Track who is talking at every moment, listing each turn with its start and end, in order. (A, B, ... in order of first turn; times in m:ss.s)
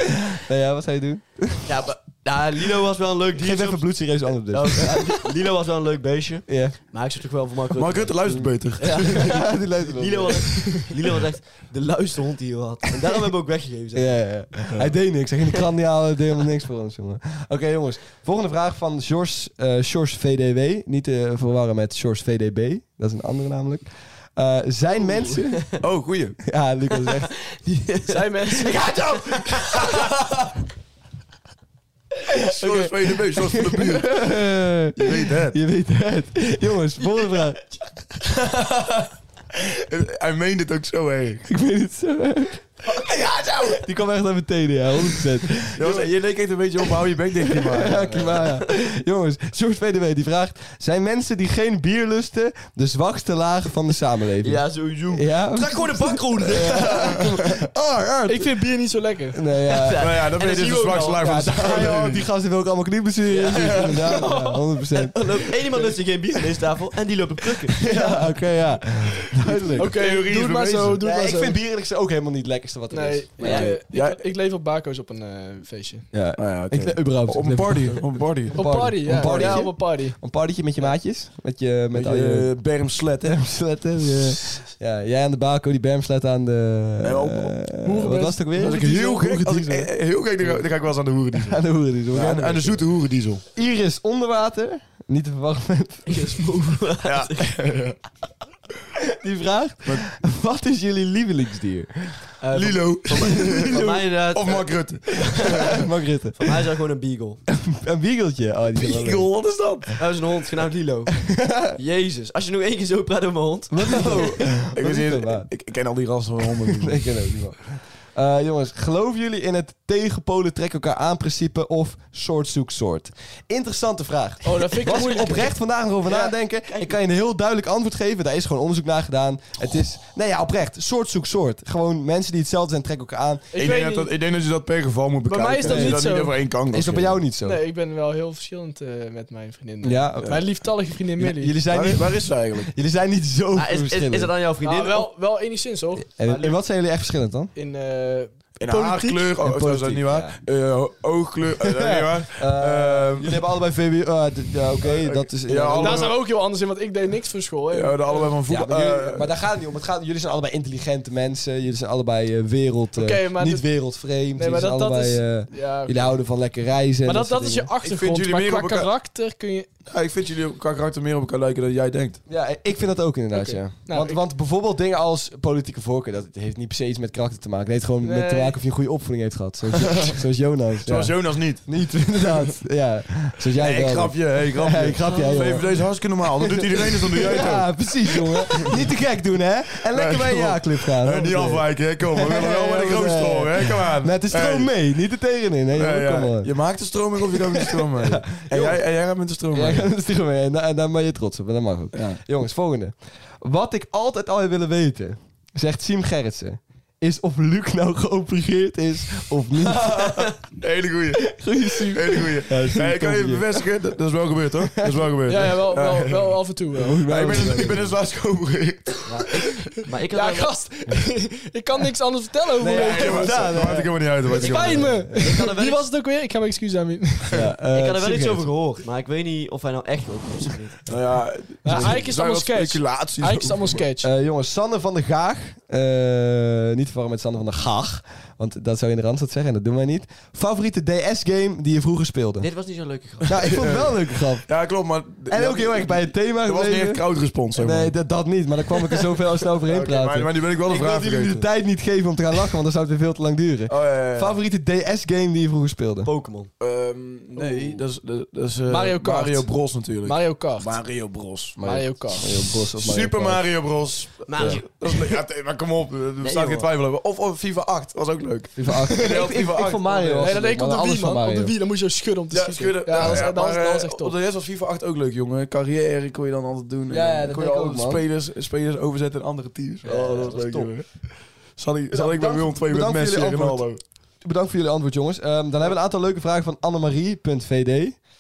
0:00.4-0:01.7 A
0:01.6-0:08.2 B
0:03.4-0:05.2 A
0:06.5-0:06.8 A
0:07.8-0:09.3 C
0:08.3-0:10.7 A
0:08.8-0:14.3 B
0:14.0-0:25.8 A
0:25.8-0:26.4 C
0:26.4-0:27.3 A
0:27.3-0:29.9 B
0:28.0-0:29.6 D
0:32.4-0:34.4 C
0:32.6-0:37.6 A
0:35.0-0:35.6 C
0:38.3-0:41.4 C
0:41.4-0:42.6 A
0:43.1-0:43.4 C
0:43.7-0:46.1 A
0:45.8-0:48.3 C
0:47.5-0:58.5 A
0:47.8-0:48.7 B
0:54.4-0:57.4 B
0:58.3-0:59.4 D
0:59.3-1:00.1 A
0:59.6-1:01.4 B
1:00.0-1:02.3 C
1:01.2-1:05.2 A
1:03.3-1:04.3 B
1:04.0-1:04.7 D
1:05.0-1:07.8 B
1:07.8-1:10.0 A
1:07.9-1:08.3 D
1:09.4-1:11.6 D
1:09.8-1:11.0 C
1:11.0-1:13.7 A
1:12.9-1:16.2 D
1:13.4-1:14.2 C
1:16.1-1:22.6 A
1:16.4-1:19.7 C
1:18.5-1:20.2 D
1:21.9-1:23.4 C
1:23.2-1:30.6 A
1:27.0-1:27.8 C
1:27.8-1:28.9 D
1:28.5-1:31.6 C
1:31.4-1:32.9 A
1:32.1-1:33.4 C
1:33.5-1:36.2 A
1:36.1-1:37.5 B
1:37.0-1:38.0 C
1:39.1-1:42.3 A
1:39.8-1:40.1 C
1:42.4-1:45.8 B
1:42.5-1:45.7 C
1:45.4-1:46.5 A
1:46.4-1:47.4 B
1:47.7-1:49.4 A
1:48.8-1:49.9 C
1:50.0-1:54.3 B
1:51.3-1:51.8 A
1:53.7-1:55.5 A
1:53.9-1:57.0 C
1:56.4-2:13.5 A
2:04.4-2:05.6 D
2:06.1-2:07.0 B
2:13.5-2:14.2 D
2:13.5-2:17.2 C
2:15.2-2:16.4 D
2:15.6-2:16.0 A
2:16.7-2:17.6 A
2:17.3-2:21.7 D
2:19.8-2:20.6 A
2:21.2-2:24.3 A
2:21.7-2:22.7 C
2:23.5-2:25.1 B
2:24.6-2:26.6 D
2:26.2-2:27.5 A
2:27.6-2:29.4 D
2:28.6-2:33.4 C
2:29.4-2:30.4 A
2:31.6-2:36.1 A
2:35.4-2:36.2 C
2:35.8-2:38.4 D
2:37.7-2:39.3 C
2:38.5-2:47.7 A
2:43.0-2:46.2 D
2:47.0-2:49.7 D
2:47.8-2:48.9 C
2:49.9-2:52.2 C
2:52.3-3:16.5 A
2:53.3-2:54.2 D
2:58.0-2:58.6 D
2:59.8-3:00.1 C
3:00.9-3:01.7 C
3:03.5-3:08.8 C
3:05.1-3:05.6 B
3:09.9-3:14.7 C
3:15.8-3:19.9 C
3:17.2-3:18.8 A
3:19.5-3:30.1 A
3:21.9-3:22.2 C
3:30.1-3:30.4 B
3:30.4-3:31.4 C
3:31.4-3:33.5 A
3:31.6-3:32.8 D
3:31.9-3:36.4 C
3:34.8-3:35.0 A
3:35.3-3:37.7 D
3:36.8-3:37.9 A
3:37.0-3:39.0 C
3:39.0-3:40.5 B
3:40.1-3:43.8 D
3:42.6-3:44.1 A
3:42.7-3:44.9 C
3:44.3-3:47.4 D
3:44.4-3:45.9 B
3:44.7-3:45.2 A
3:47.3-3:48.5 A
3:47.7-3:50.8 B
3:50.9-3:53.9 C
3:51.6-3:54.1 D
3:51.7-3:52.0 A
3:54.0-4:02.5 A
4:02.4-4:03.4 B
4:03.2-4:04.5 A
4:03.2-4:08.0 C
4:05.3-4:07.0 A
4:07.5-4:16.1 A
4:09.6-4:11.4 C
4:13.7-4:14.4 C
4:16.0-4:16.5 B
4:16.6-4:30.4 C
4:17.4-4:17.8 D
4:18.7-4:20.8 D
4:21.6-4:22.3 D
4:21.6-4:23.4 A
4:24.3-4:25.2 B
4:26.2-4:26.7 B
4:28.6-4:31.5 A
4:30.2-4:34.2 D
4:32.3-4:43.8 C
4:33.0-4:33.3 A
4:36.9-4:38.0 A
4:39.8-4:40.3 B
4:39.9-4:40.7 A
4:41.9-4:48.0 A